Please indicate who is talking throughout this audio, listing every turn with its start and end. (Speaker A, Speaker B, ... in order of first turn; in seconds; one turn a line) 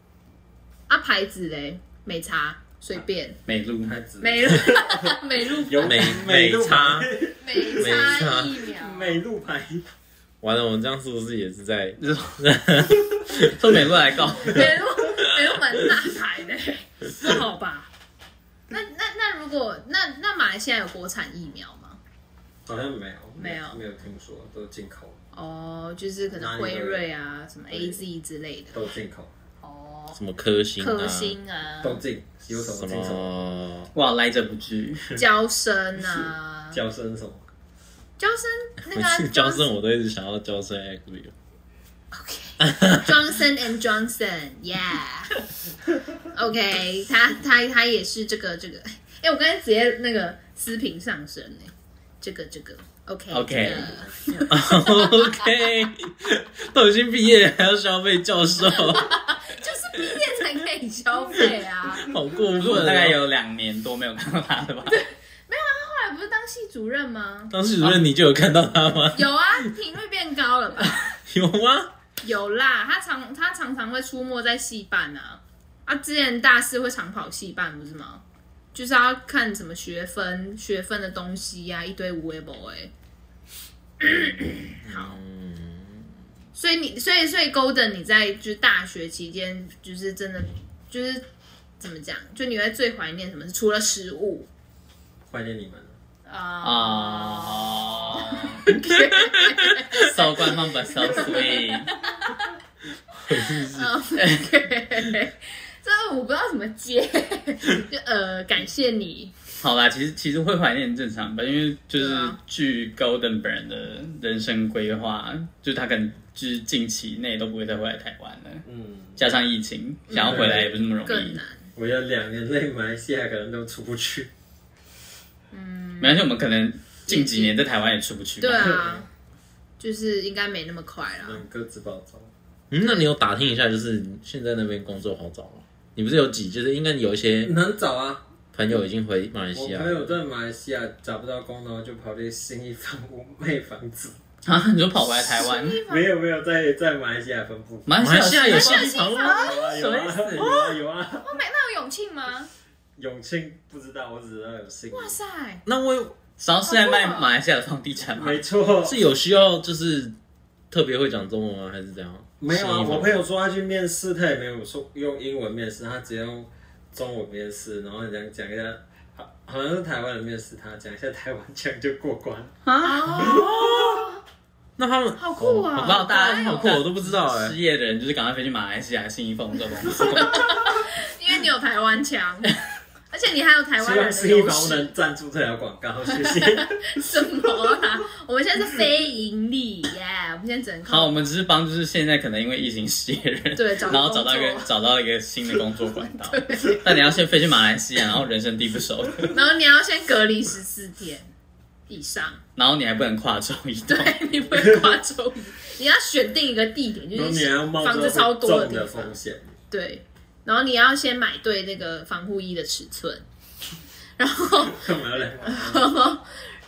Speaker A: 0.9-3.4
Speaker B: 3.5-3.9
Speaker C: 3.8-9.8
Speaker A: 4.2-6.2
Speaker D: 5.8-7.1
Speaker A: 7.4-9.2
Speaker D: 7.8-8.6
Speaker D: 10.4-13.7
Speaker B: 12.0-12.4
Speaker B: 13.3-14.8
Speaker A: 14.4-17.9
Speaker A: 18.7-22.0
Speaker C: 22.7-25.2
Speaker A: 23.4-23.8
Speaker A: 25.3-28.8
Speaker C: 26.3-27.1
Speaker C: 27.7-28.0
Speaker C: 28.7-29.3
Speaker A: 29.6-30.2
Speaker D: 30.1-31.4
Speaker A: 30.8-32.0
Speaker C: 31.8-33.3
Speaker D: 32.5-33.9
Speaker B: 33.9-35.0
Speaker A: 35.1-36.8
Speaker C: 36.7-37.4
Speaker A: 38.2-39.7
Speaker D: 38.9-41.3
Speaker A: 42.1-45.3
Speaker D: 42.6-43.1
Speaker A: 46.3-55.5
Speaker B: 53.3-54.0
Speaker C: 53.5-54.4
Speaker D: 54.5-59.1
Speaker A: 58.6-62.1
Speaker D: 61.9-63.2
Speaker B: 62.6-65.0
Speaker A: 64.8-67.5
Speaker D: 67.5-69.7
Speaker A: 69.1-71.1
Speaker D: 71.3-71.9
Speaker A: 72.2-78.2
Speaker A: 78.7-82.9
Speaker A: 84.0-85.2
Speaker D: 84.8-86.1
Speaker A: 86.5-91.2
Speaker A: 91.8-94.5
Speaker C: 95.3-95.9
Speaker A: 96.2-102.5
Speaker B: 96.6-98.7
Speaker B: 99.7-101.9
Speaker A: 103.1-109.3
Speaker D: 103.3-103.9
Speaker B: 104.2-104.5
Speaker B: 109.6-118.6
Speaker A: 112.0-112.4
Speaker C: 118.7-119.2
Speaker B: 119.2-121.4
Speaker C: 120.1-120.7
Speaker A: 121.0-121.6
Speaker C: 121.7-124.3
Speaker A: 125.5-126.2
Speaker B: 126.0-128.8
Speaker A: 127.1-127.5
Speaker A: 128.4-129.1
Speaker C: 128.4-129.1
Speaker A: 129.8-131.4
Speaker C: 131.2-132.3
Speaker D: 132.7-137.5
Speaker C: 137.4-138.2
Speaker D: 138.5-140.1
Speaker C: 139.5-144.2
Speaker B: 144.4-145.8
Speaker A: 145.3-146.1
Speaker C: 145.9-147.9
Speaker B: 147.9-150.5
Speaker D: 148.0-149.5
Speaker A: 148.4-149.7
Speaker C: 149.3-151.3
Speaker A: 150.3-152.5
Speaker C: 152.9-155.2
Speaker A: 154.9-155.6
Speaker D: 155.7-156.1
Speaker B: 156.4-158.4
Speaker A: 156.6-157.3
Speaker C: 158.1-159.0
Speaker D: 158.8-160.1
Speaker D: 160.7-163.2
Speaker C: 162.4-172.5
Speaker B: 172.7-173.4
Speaker A: 172.8-174.1
Speaker C: 173.1-173.8
Speaker D: 173.4-173.9
Speaker D: 174.8-177.5
Speaker A: 175.2-176.8
Speaker B: 175.8-180.4
Speaker A: 179.9-182.5
Speaker A: 183.1-184.9
Speaker C: 183.8-186.9
Speaker A: 186.5-191.1
Speaker B: 190.8-199.3
Speaker A: 193.5-194.7
Speaker A: 196.3-196.8
Speaker A: 199.3-201.3
Speaker A: 201.9-202.4
Speaker B: 202.6-204.2
Speaker A: 203.9-209.1
Speaker C: 204.5-204.9
Speaker C: 207.1-209.5
Speaker A: 209.7-213.2
Speaker A: 214.2-214.8
Speaker C: 214.6-215.9
Speaker A: 215.4-216.3